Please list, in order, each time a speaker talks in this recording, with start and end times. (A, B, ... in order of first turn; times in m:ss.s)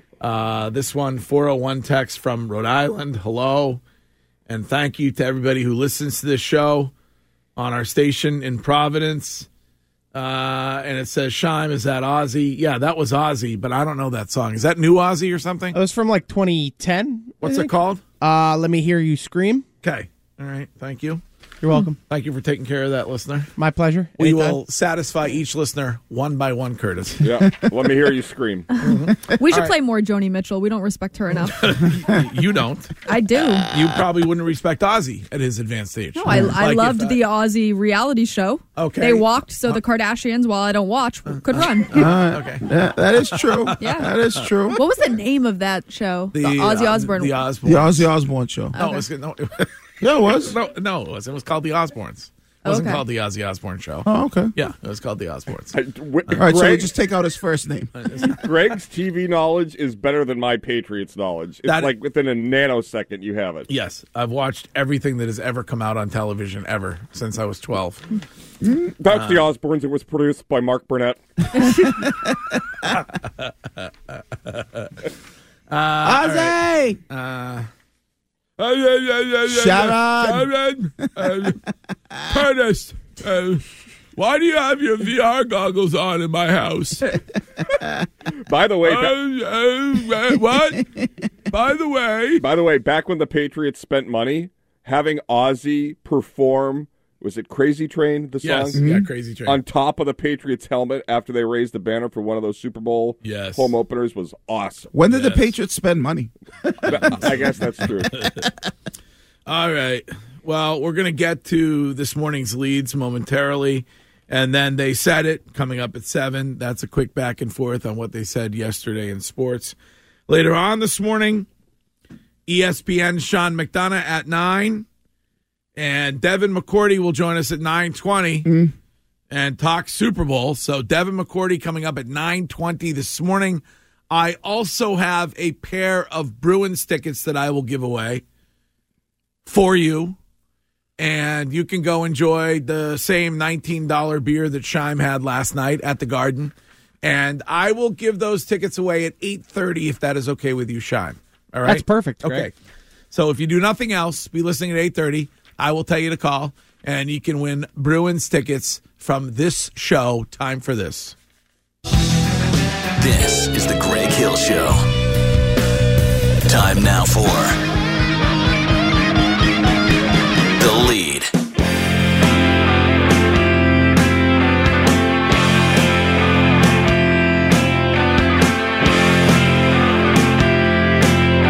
0:00.2-0:03.8 A
0:04.5-0:06.9 A
0:07.6-0:09.5 A
0:10.1-0:15.8 A
0:15.7-0:19.6 B
0:17.4-0:18.0 A
0:19.8-0:21.2 A
0:21.6-0:22.0 B
0:22.1-0:23.5 A
0:23.6-0:24.6 B
0:24.2-0:27.2 A
0:27.2-0:28.7 C
0:28.7-0:31.9 D
0:28.8-0:29.7 A
0:31.6-0:33.0 A
0:33.1-0:33.7 D
0:33.7-0:37.2 A
0:36.2-0:42.1 D
0:36.3-0:36.6 E
0:38.8-0:39.8 A
0:41.3-0:42.7 A
0:41.9-0:44.8 E
0:43.3-0:44.4 A
0:43.8-0:44.1 D
0:44.7-0:47.4 D
0:46.4-0:48.1 A
0:47.6-0:48.8 E
0:48.8-0:49.1 D
0:48.8-0:49.7 A
0:50.0-0:50.6 E
0:50.3-0:55.8 A
0:52.6-0:53.0 D
0:54.0-0:54.5 E
0:55.7-0:56.9 C
0:56.4-0:57.9 E
0:58.0-0:58.4 A
0:58.4-1:03.7 C
1:01.7-1:01.9 A
1:03.7-1:08.0 A
1:08.6-1:08.9 E
1:09.0-1:11.2 C
1:09.1-1:09.5 A
1:11.6-1:12.0 D
1:11.6-1:12.6 E
1:12.9-1:13.9 A
1:14.5-1:14.9 A
1:15.7-1:16.6 A
1:16.0-1:17.0 E
1:17.1-1:17.7 A
1:18.6-1:21.6 A
1:19.5-1:20.5 E
1:21.2-1:21.5 E
1:22.2-1:23.6 A
1:24.2-1:27.0 A
1:28.5-1:29.1 C
1:28.8-1:30.9 A
1:31.5-1:32.4 A
1:32.4-1:38.8 C
1:38.4-1:39.6 A
1:38.7-1:39.1 E
1:39.5-1:44.9 C
1:43.2-1:43.7 A
1:44.9-1:47.4 E
1:45.1-1:45.5 A
1:46.9-1:48.1 C
1:47.0-1:47.4 A
1:48.1-1:48.5 A
1:48.2-1:48.5 E
1:49.5-1:59.8 A
2:00.3-2:01.5 A
2:02.5-2:04.9 A
2:05.8-2:08.5 A
2:08.4-2:08.7 E
2:09.3-2:18.2 A
2:19.5-2:20.2 A
2:21.0-2:32.5 A
2:31.6-2:32.5 B
2:33.1-2:41.2 A
2:43.0-2:44.8 F
2:46.4-2:47.6 F
2:50.6-2:51.3 F